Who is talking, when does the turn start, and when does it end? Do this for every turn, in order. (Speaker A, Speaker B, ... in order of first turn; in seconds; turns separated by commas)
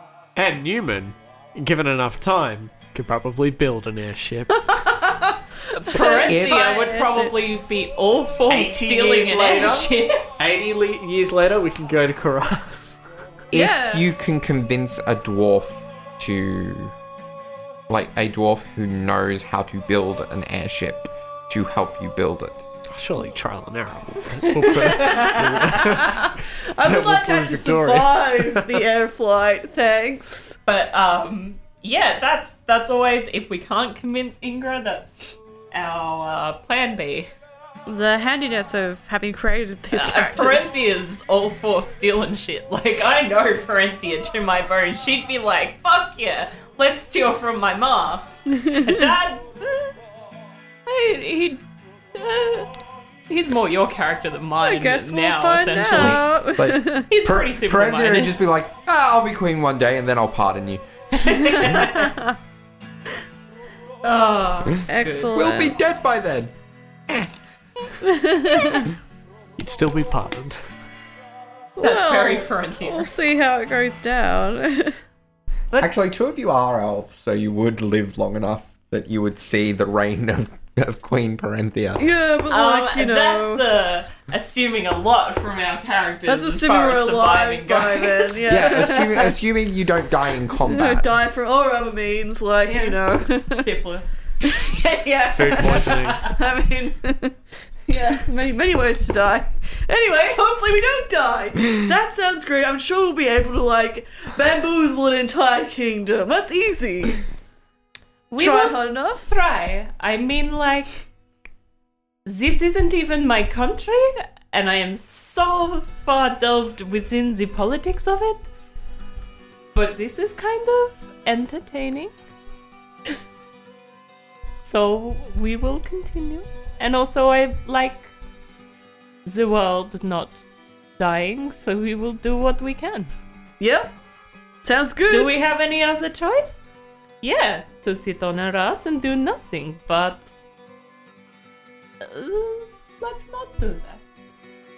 Speaker A: 0.4-4.9, Speaker B: 5.8-10.3, Speaker C: 5.9-7.3, Speaker D: 6.2-6.8, Speaker A: 8.5-13.0, Speaker D: 13.5-16.9, Speaker C: 13.5-14.1, Speaker D: 17.9-22.6, Speaker A: 22.9-28.8, Speaker B: 24.5-26.1, Speaker E: 26.7-30.6, Speaker B: 30.7-37.3, Speaker C: 37.9-40.8, Speaker B: 39.9-49.9, Speaker C: 48.6-49.0, Speaker B: 50.9-51.6, Speaker B: 52.1-52.7, Speaker B: 53.3-56.3, Speaker C: 54.6-57.0, Speaker D: 56.0-60.8, Speaker B: 57.1-58.4, Speaker B: 61.1-62.2, Speaker C: 61.8-62.3, Speaker B: 64.0-65.3, Speaker C: 64.9-65.8, Speaker D: 65.3-66.5, Speaker D: 67.1-67.4, Speaker C: 68.0-68.9, Speaker A: 69.6-70.6, Speaker C: 71.8-75.0, Speaker B: 71.8-73.1, Speaker D: 75.8-82.0, Speaker E: 82.0-83.6, Speaker B: 82.5-88.5, Speaker E: 86.3-89.3, Speaker D: 88.5-91.1, Speaker E: 90.7-93.7, Speaker B: 92.7-93.0, Speaker B: 93.5-94.2, Speaker E: 94.5-97.3, Speaker A: 95.3-96.2, Speaker B: 95.6-96.3, Speaker E: 97.9-107.2, Speaker B: 108.3-111.0, Speaker E: 108.4-109.3, Speaker B: 112.3-118.5, Speaker B: 119.8-122.1, Speaker B: 124.6-128.1, Speaker B: 129.2-130.4, Speaker B: 131.0-133.1, Speaker E: 133.6-133.9, Speaker E: 134.6-135.3, Speaker B: 135.1-136.6, Speaker B: 137.2-140.3, Speaker B: 142.0-144.0